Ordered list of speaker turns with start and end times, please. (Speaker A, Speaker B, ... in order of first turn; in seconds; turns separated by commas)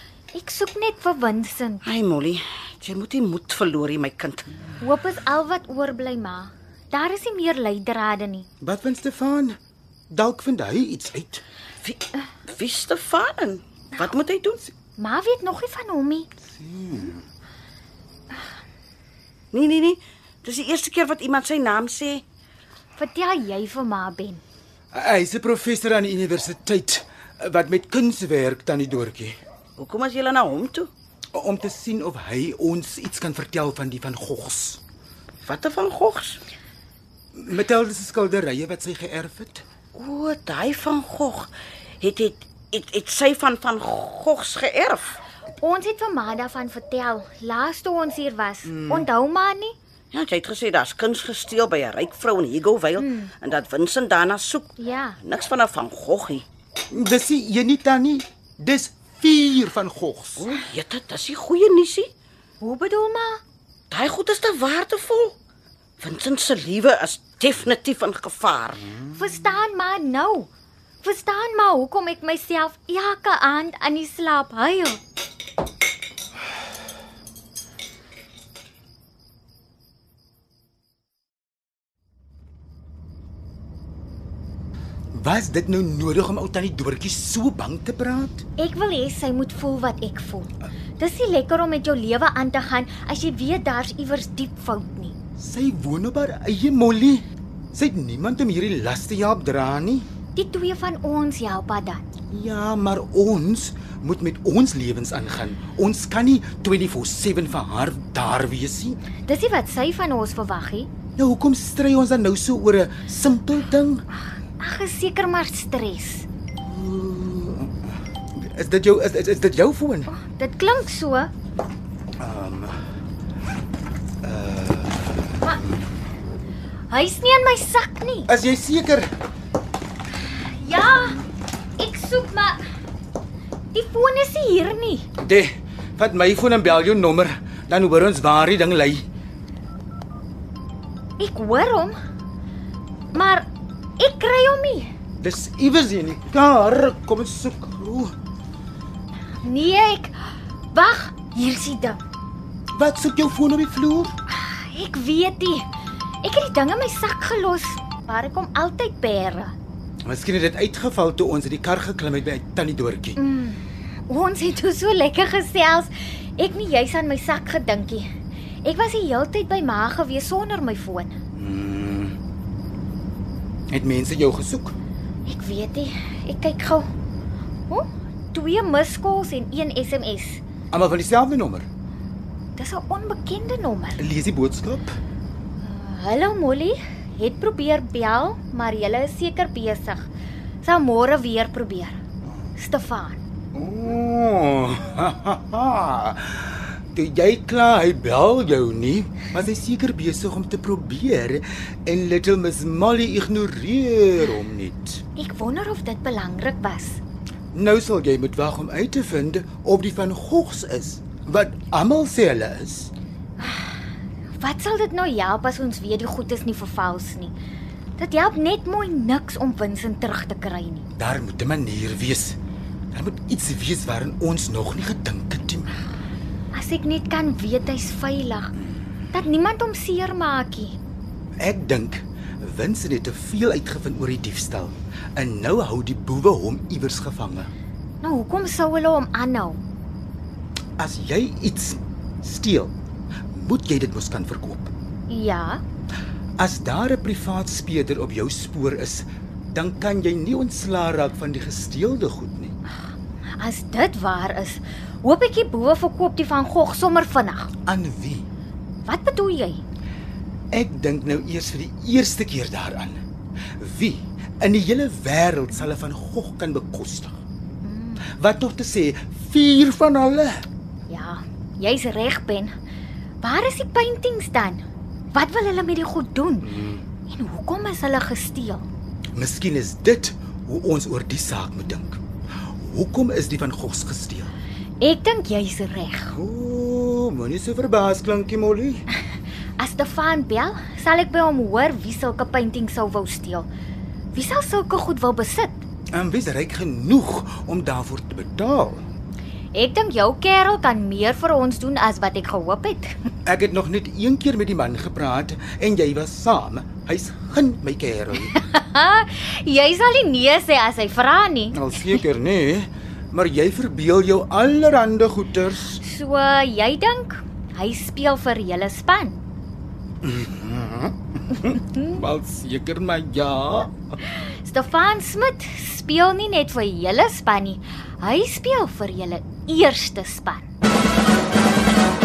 Speaker A: 0.3-1.9, Speaker B: 1.8-4.5, Speaker A: 4.8-8.5, Speaker C: 8.6-9.6, Speaker C: 10.1-11.4, Speaker B: 11.8-14.6, Speaker A: 15.0-16.3, Speaker C: 16.6-17.2, Speaker B: 19.5-22.2, Speaker A: 23.0-24.4, Speaker C: 24.9-29.4, Speaker B: 29.8-30.9, Speaker C: 31.3-34.8, Speaker B: 35.4-36.4, Speaker C: 37.4-39.6, Speaker B: 40.0-41.5, Speaker B: 42.0-45.2, Speaker A: 45.6-49.8, Speaker C: 48.6-49.1, Speaker B: 50.1-56.5, Speaker A: 53.0-53.3, Speaker A: 54.8-55.2, Speaker C: 56.9-60.5, Speaker B: 60.4-62.1, Speaker A: 62.6-63.4, Speaker B: 63.9-65.3, Speaker B: 66.0-68.9, Speaker A: 69.1-70.5, Speaker A: 71.0-75.0, Speaker C: 85.1-88.4, Speaker A: 88.6-95.2, Speaker C: 95.4-100.1, Speaker A: 100.3-102.0, Speaker C: 102.3-109.0, Speaker A: 109.3-110.9, Speaker C: 111.2-114.0, Speaker A: 114.6-116.3, Speaker C: 116.6-120.1, Speaker A: 120.1-121.3, Speaker C: 122.2-122.8, Speaker C: 124.2-125.9, Speaker A: 126.9-128.3, Speaker C: 128.3-129.1, Speaker A: 130.2-131.2, Speaker A: 131.8-132.6, Speaker A: 133.7-135.1, Speaker C: 135.2-139.1, Speaker A: 141.2-141.9, Speaker A: 143.1-143.5, Speaker A: 144.0-144.9, Speaker C: 145.2-148.1, Speaker A: 149.4-152.0, Speaker C: 152.7-154.1, Speaker A: 154.3-155.7, Speaker A: 156.2-159.6, Speaker C: 160.0-163.2, Speaker A: 163.2-168.1, Speaker A: 168.6-171.2, Speaker C: 171.4-172.2, Speaker C: 173.7-174.8, Speaker A: 175.3-176.9, Speaker A: 177.7-180.4, Speaker C: 180.7-181.7, Speaker A: 182.6-184.0, Speaker C: 184.0-185.0, Speaker A: 185.6-190.1, Speaker A: 190.6-192.0, Speaker A: 192.6-193.2, Speaker C: 193.5-205.0, Speaker A: 205.2-207.0, Speaker C: 207.5-212.9, Speaker A: 213.4-213.8, Speaker A: 214.4-217.3, Speaker A: 218.0-220.9, Speaker C: 221.0-222.4, Speaker C: 222.9-225.8, Speaker A: 226.5-228.5, Speaker A: 229.1-230.8, Speaker C: 231.4-237.5, Speaker A: 238.0-239.6, Speaker C: 240.8-242.7, Speaker C: 243.3-244.7, Speaker A: 245.1-245.6, Speaker C: 246.4-252.5, Speaker A: 253.4-257.5, Speaker C: 257.7-258.3, Speaker A: 258.9-259.6, Speaker C: 260.5-263.0, Speaker C: 263.6-267.2, Speaker A: 267.6-268.0, Speaker C: 268.1-270.4, Speaker A: 270.9-272.5, Speaker A: 273.2-278.6, Speaker C: 276.4-276.8, Speaker C: 279.2-284.3, Speaker A: 284.8-286.2, Speaker C: 286.1-288.8, Speaker A: 289.6-293.5, Speaker A: 294.1-295.6, Speaker C: 295.9-298.9, Speaker A: 299.5-303.0, Speaker C: 303.3-308.4, Speaker A: 308.2-311.7, Speaker C: 311.5-315.8, Speaker A: 315.8-319.2, Speaker C: 320.0-323.7, Speaker A: 324.1-330.5